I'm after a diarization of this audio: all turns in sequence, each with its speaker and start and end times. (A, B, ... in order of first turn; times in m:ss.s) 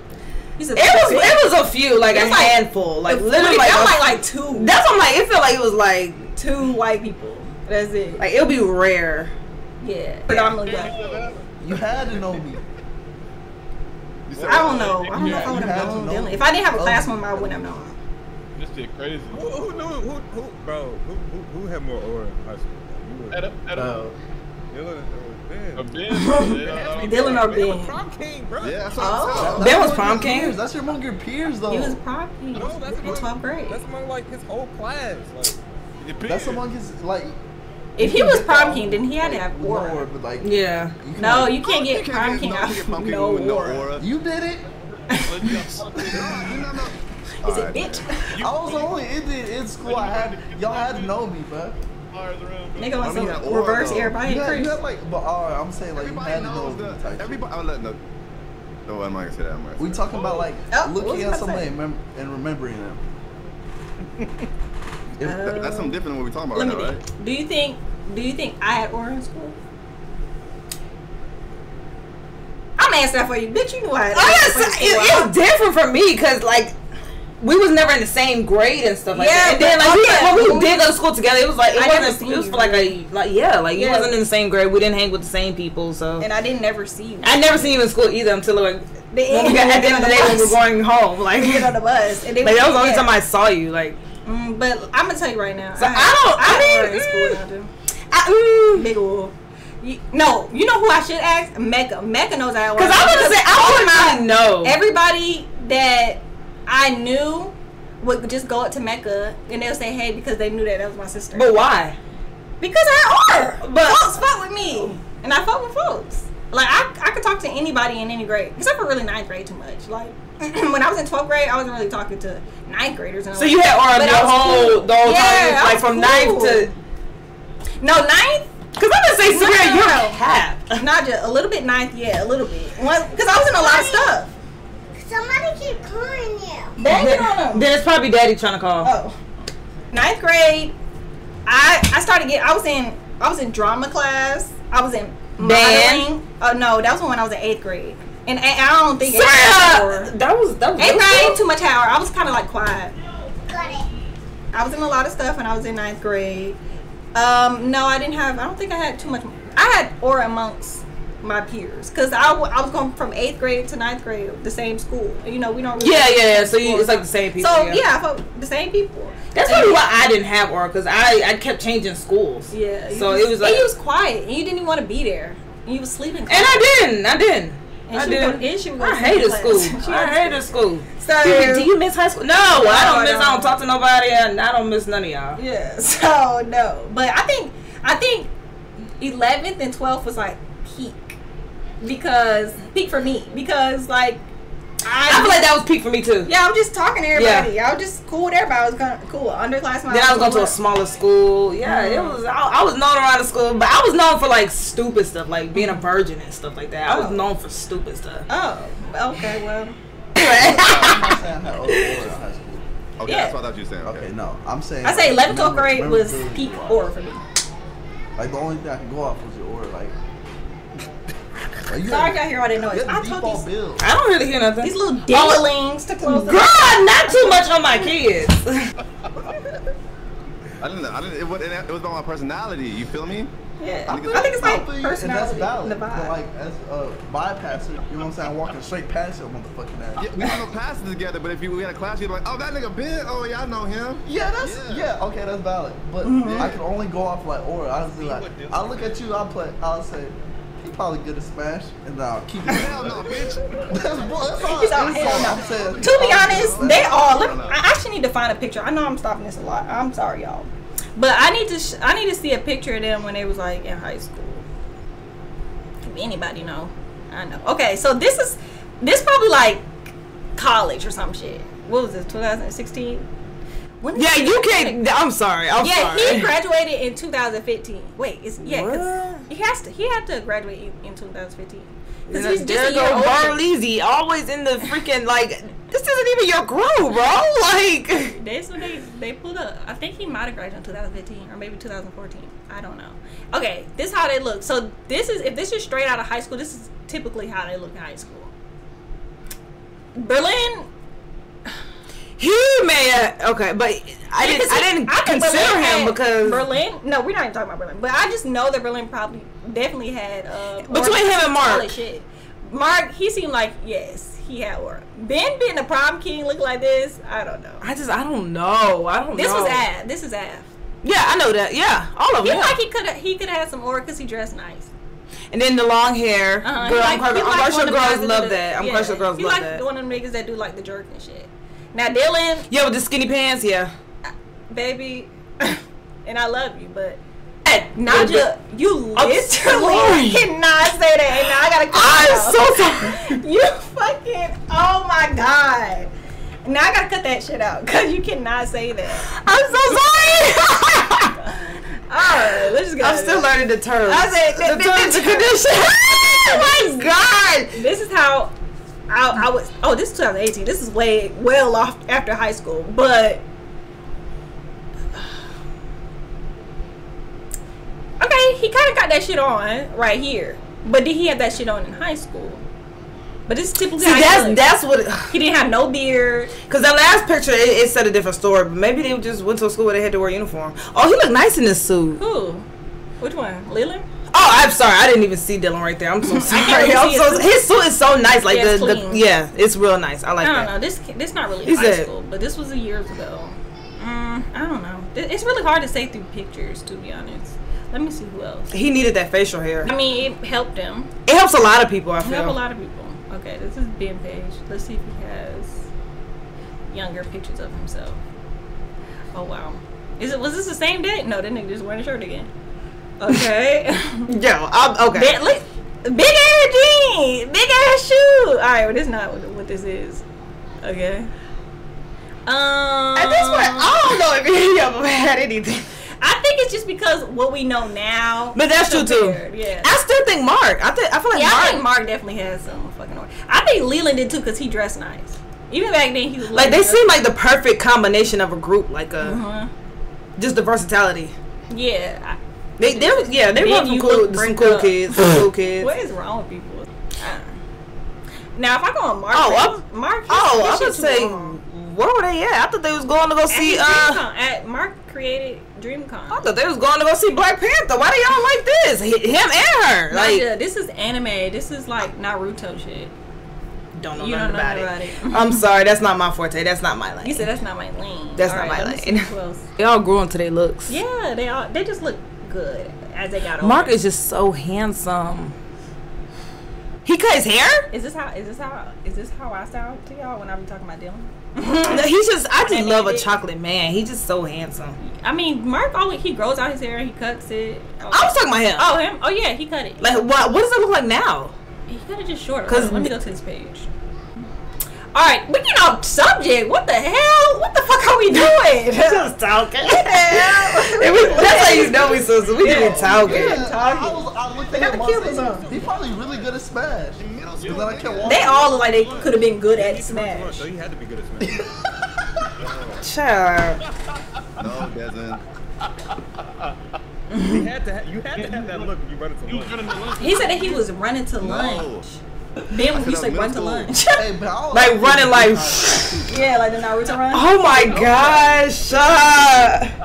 0:00.6-0:01.5 A
0:00.8-0:06.3 B
0:02.1-0:04.7 A
0:06.4-0:08.2 A
0:08.2-0:09.3 B
0:09.8-0:11.0 A
0:10.5-0:11.4 C
0:10.7-0:11.4 D
0:11.6-0:12.6 E
0:14.3-0:15.2 F
0:14.3-0:15.0 D
0:14.5-0:18.0 A
0:14.5-0:16.0 C
0:15.1-0:17.9 E
0:18.6-0:19.9 C
0:19.3-0:23.4 D
0:23.3-0:24.0 C
0:23.7-0:24.2 E
0:24.7-0:29.6 D
0:25.8-0:27.5 C
0:26.1-0:28.0 A
0:28.6-0:29.8 F
0:29.0-0:29.8 A
0:29.3-0:32.0 E
0:29.6-0:30.6 B
0:31.7-0:33.8 A
0:32.5-0:35.6 D
0:36.0-0:36.6 C
0:36.2-0:37.4 E
0:38.0-0:40.1 A
0:38.0-0:41.6 E
0:40.4-0:40.9 B
0:41.2-0:43.9 A
0:41.6-0:44.1 F
0:44.0-0:44.6 E
0:45.1-0:45.8 A
0:45.1-0:46.6 C
0:46.1-0:48.2 F
0:47.4-0:48.3 A
0:48.3-0:49.0 C
0:48.4-0:51.8 E
0:49.8-0:51.2 C
0:52.1-0:53.4 C
0:52.8-0:54.8 A
0:53.0-0:54.2 F
0:54.1-0:57.4 E
0:56.0-0:58.0 F
0:58.9-1:00.1 F
0:59.8-1:03.0 E
1:00.7-1:01.7 A
1:05.2-1:07.0 F
1:05.2-1:09.6 A
1:12.8-1:15.3 A
1:14.1-1:16.8 B
1:17.4-1:26.3 B
1:19.1-1:21.0 A
1:21.7-1:23.0 A
1:23.7-1:24.2 A
1:26.2-1:27.8 A
1:27.2-1:31.7 B
1:29.1-1:30.6 A
1:31.4-1:33.1 A
1:32.4-1:34.0 B
1:34.2-1:37.7 A
1:35.8-1:37.4 B
1:38.1-1:38.9 B
1:38.8-1:51.6 A
1:42.8-1:44.8 B
1:51.3-1:52.0 B
1:52.6-2:06.7 A
1:53.6-1:54.2 B
2:03.4-2:06.7 B
2:07.8-2:08.5 A
2:08.8-2:10.8 B
2:09.2-2:10.2 A
2:10.8-2:14.3 A
2:13.3-2:14.2 G
2:15.0-2:16.8 G
2:16.8-2:17.7 A
2:16.8-2:18.9 B
2:18.8-2:19.2 A
2:19.9-2:20.8 A
2:21.5-2:30.1 A
2:25.4-2:26.1 B
2:29.0-2:31.4 B
2:30.8-2:32.9 A
2:33.4-2:33.9 G
2:34.5-2:36.6 A
2:37.1-2:49.9 A
2:45.8-2:47.8 B
2:49.3-2:53.7 B
2:52.5-2:56.7 A
2:56.3-3:05.4 B
2:57.9-3:00.5 A
3:01.0-3:01.7 A
3:02.4-3:03.6 A
3:05.4-3:08.3 A
3:09.0-3:11.2 A
3:11.8-3:14.2 A
3:14.8-3:15.5 A
3:15.1-3:16.3 B
3:16.3-3:20.6 A
3:17.2-3:17.5 B
3:19.9-3:28.3 B
3:21.6-3:22.2 A
3:25.6-3:25.8 A
3:26.9-3:27.2 A
3:28.3-3:29.8 A
3:30.2-3:31.1 B
3:30.2-3:32.7 E
3:33.0-3:34.1 F
3:33.1-3:33.4 A
3:33.8-3:36.9 E
3:34.8-3:37.2 A
3:38.2-3:40.0 E
3:41.7-3:43.9 E
3:41.9-3:43.5 A
3:43.8-3:45.4 B
3:44.6-3:46.5 A
3:46.0-3:48.7 B
3:47.1-3:47.9 A
3:50.6-3:53.3 F
3:53.6-3:56.2 A
3:53.9-3:54.6 F
3:54.2-4:00.1 E
4:00.0-4:04.9 F
4:04.0-4:13.1 E
4:06.0-4:06.5 A
4:06.2-4:06.6 F
4:07.9-4:09.0 D
4:12.5-4:17.6 F
4:13.7-4:17.1 E
4:14.4-4:24.4 A
4:25.8-4:29.8 A
4:30.4-4:33.1 A
4:33.8-4:34.8 A
4:34.0-4:36.3 B
4:35.6-4:43.4 A
4:38.4-4:39.2 B
4:42.1-4:48.1 B
4:48.0-4:58.3 A
5:00.0-5:00.7 A
5:02.2-5:06.4 B
5:04.2-5:17.6 A
5:10.6-5:11.7 B
5:17.6-5:19.7 B
5:19.1-5:20.5 A
5:20.8-5:22.6 B
5:22.2-5:24.7 A
5:25.3-5:29.6 B
5:26.4-5:32.5 A
5:32.5-5:33.7 B
5:34.5-5:37.0 A
5:37.5-5:38.3 B
5:37.8-5:45.9 A
5:39.0-5:40.3 B
5:41.7-5:43.1 B
5:46.4-5:56.9 A
5:49.1-5:51.1 B
5:52.8-5:57.6 B
5:57.5-5:58.3 A
5:58.9-6:03.2 A
6:08.0-6:12.4 A
6:13.3-6:14.4 A
6:13.8-6:15.1 B
6:15.1-6:16.3 A
6:16.5-6:22.0 B
6:22.0-6:22.5 A
6:23.0-6:23.9 A
6:24.1-6:30.5 B
6:26.1-6:27.4 A
6:28.3-6:29.0 A
6:30.2-6:38.5 A
6:31.4-6:31.9 B
6:38.5-6:39.7 B
6:39.6-6:40.9 A
6:41.1-6:42.4 B
6:42.0-6:45.6 A
6:46.7-6:48.0 A
6:49.1-6:52.3 A
6:53.0-6:54.1 A
6:54.1-6:55.2 B
6:54.9-7:00.0 A
7:00.6-7:01.1 A
7:02.3-7:03.8 A
7:03.0-7:05.7 B
7:06.0-7:09.7 A
7:08.4-7:11.6 B
7:11.1-7:16.9 A
7:16.3-7:19.2 B
7:19.0-7:19.5 A
7:20.2-7:21.1 B
7:21.5-7:25.1 A
7:22.6-7:25.7 B
7:25.6-7:27.4 A
7:28.4-7:31.4 A
7:29.1-7:34.0 B
7:33.3-7:36.3 A
7:36.1-7:40.3 B
7:39.9-7:42.9 A
7:43.8-7:47.3 B
7:44.0-7:45.5 A
7:47.0-7:49.5 A
7:48.2-7:50.8 B
7:50.7-7:53.8 A
7:53.4-7:55.4 B
7:56.8-7:57.7 B
7:57.7-8:01.9 A
8:01.4-8:04.8 B
8:02.4-8:03.1 A
8:04.8-8:10.0 A
8:07.9-8:08.8 B
8:09.8-8:11.4 B
8:11.7-8:13.7 A
8:12.5-8:12.9 B
8:14.9-8:25.5 A
8:18.8-8:23.4 B
8:20.1-8:21.4 E
8:21.0-8:23.0 D
8:22.9-8:28.5 E
8:25.3-8:26.3 D
8:27.0-8:28.4 F
8:27.4-8:29.3 C
8:28.0-8:30.5 A
8:28.8-8:31.5 D
8:31.2-8:32.3 E
8:32.4-8:32.8 D
8:32.4-8:32.8 F
8:32.8-8:33.6 B
8:34.4-8:35.2 F
8:37.1-8:37.5 A
8:37.2-8:39.8 D
8:38.2-8:38.7 C
8:39.2-8:40.7 C
8:40.0-8:42.0 A
8:41.2-8:41.9 F
8:42.5-8:44.0 A
8:42.7-8:43.8 F
8:44.0-8:46.3 E
8:44.5-8:46.0 B
8:46.1-8:48.2 A
8:47.1-8:49.7 B
8:47.7-8:48.2 C